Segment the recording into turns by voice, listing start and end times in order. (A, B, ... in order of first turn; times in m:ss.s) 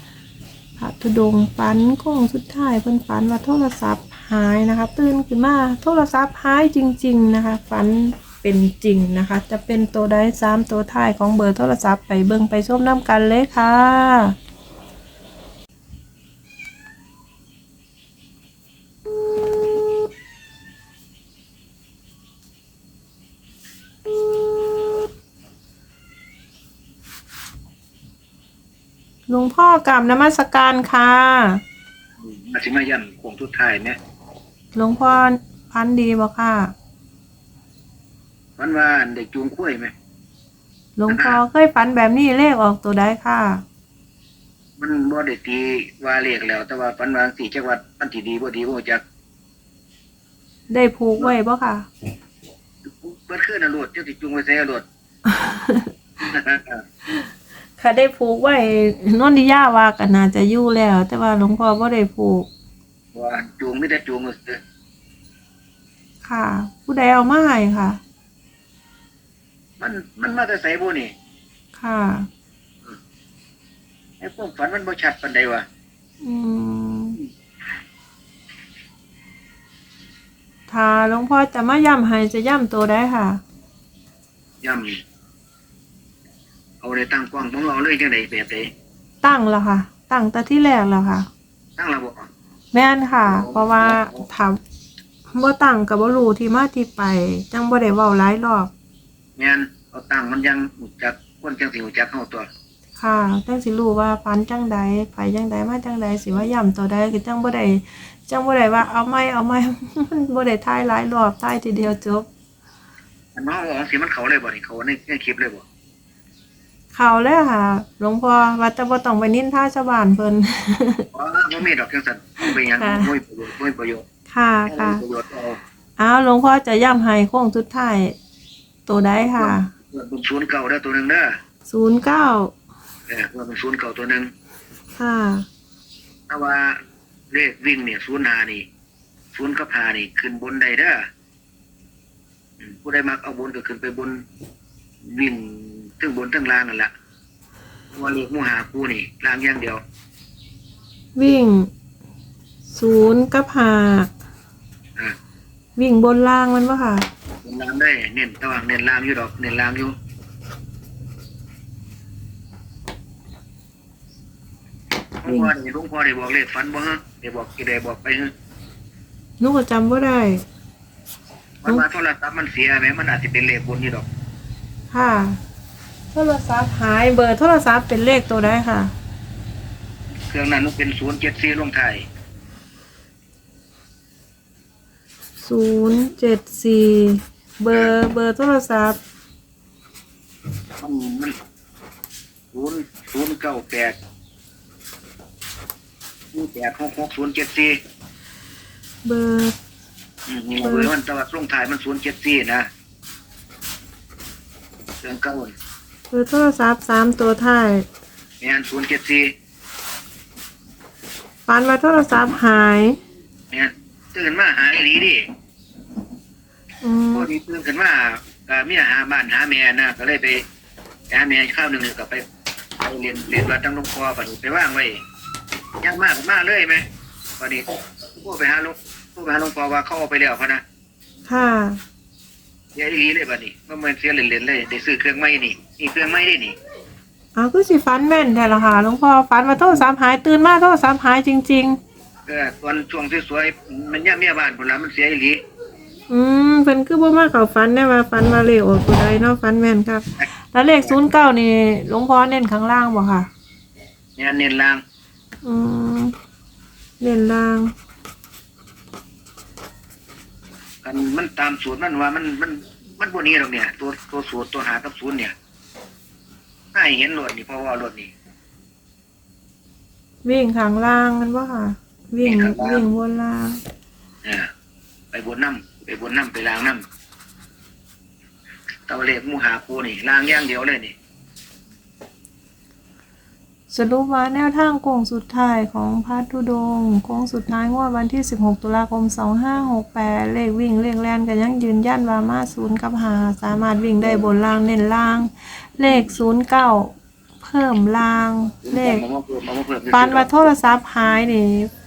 0:00.8-0:14.3 A
0:29.3-0:31.6 A
0:32.2-0:34.0 B
0:34.7-0:36.7 A
0:38.6-0:39.9 B
0:41.0-0:43.6 A
0:41.1-0:41.4 B
0:44.8-0:49.0 B
0:50.7-0:51.9 A
0:52.8-0:54.8 B
0:55.3-0:55.9 A
0:56.3-0:56.8 B
0:57.1-1:02.5 A
1:03.1-1:04.6 B
1:06.2-1:08.0 A
1:09.8-1:11.1 B
1:11.8-1:12.3 A
1:14.2-1:15.6 B
1:16.2-1:17.2 A
1:20.7-1:23.4 A
1:24.6-1:25.0 B
1:26.8-1:28.7 B
1:29.2-1:31.3 A
1:31.8-1:32.3 B
1:32.7-1:34.6 A
1:33.2-1:34.2 B
1:35.3-1:38.7 A
1:39.4-1:42.5 B
1:43.0-1:52.3 A
1:53.3-1:55.6 B
1:56.9-2:01.1 A
2:01.1-2:04.0 B
2:02.8-2:03.1 A
2:04.3-2:05.0 A
2:04.7-2:05.6 B
2:06.0-2:08.2 A
2:08.9-2:09.7 A
2:09.2-2:11.4 B
2:11.7-2:12.5 A
2:13.1-2:14.3 B
2:15.0-2:15.4 A
2:16.3-2:16.8 B
2:17.3-2:18.6 B
2:19.3-2:21.0 B
2:22.6-2:24.2 B
2:25.0-2:26.9 B
2:27.9-2:29.8 B
2:31.2-2:31.7 A
2:32.7-2:34.1 A
2:35.8-2:37.1 A
2:37.4-2:40.0 B
2:45.2-2:48.3 B
2:45.2-2:45.5 A
2:49.4-2:50.4 A
2:51.6-2:54.1 B
2:54.9-2:55.4 A
2:56.1-2:58.9 A
3:00.3-3:02.0 B
3:05.4-3:09.0 A
3:10.8-3:11.3 B
3:12.5-3:14.0 B
3:16.3-3:17.8 B
3:19.0-3:19.6 A
3:20.3-3:22.7 B
3:20.6-3:20.9 A
3:25.0-3:25.5 B
3:26.1-3:27.8 A
3:28.4-3:29.3 B
3:31.5-3:33.0 A
3:33.5-3:35.2 B
3:36.8-3:37.3 A
3:37.1-3:40.4 B
3:41.1-3:42.2 B
3:42.8-3:45.0 B
3:45.8-3:46.8 B
3:48.2-3:50.6 B
3:51.3-3:51.8 A
3:52.7-3:56.6 B
3:57.3-4:01.8 A
4:02.2-4:05.4 B
4:06.1-4:13.3 A
4:14.2-4:14.8 B
4:15.4-4:16.1 A
4:17.0-4:17.7 A
4:20.8-4:25.3 B
4:26.7-4:28.1 B
4:30.2-4:33.6 A
4:32.2-4:32.9 B
4:35.1-4:36.8 B
4:38.9-4:40.9 B
4:43.7-4:59.0 A
4:58.6-5:00.5 B
4:59.9-5:01.7 A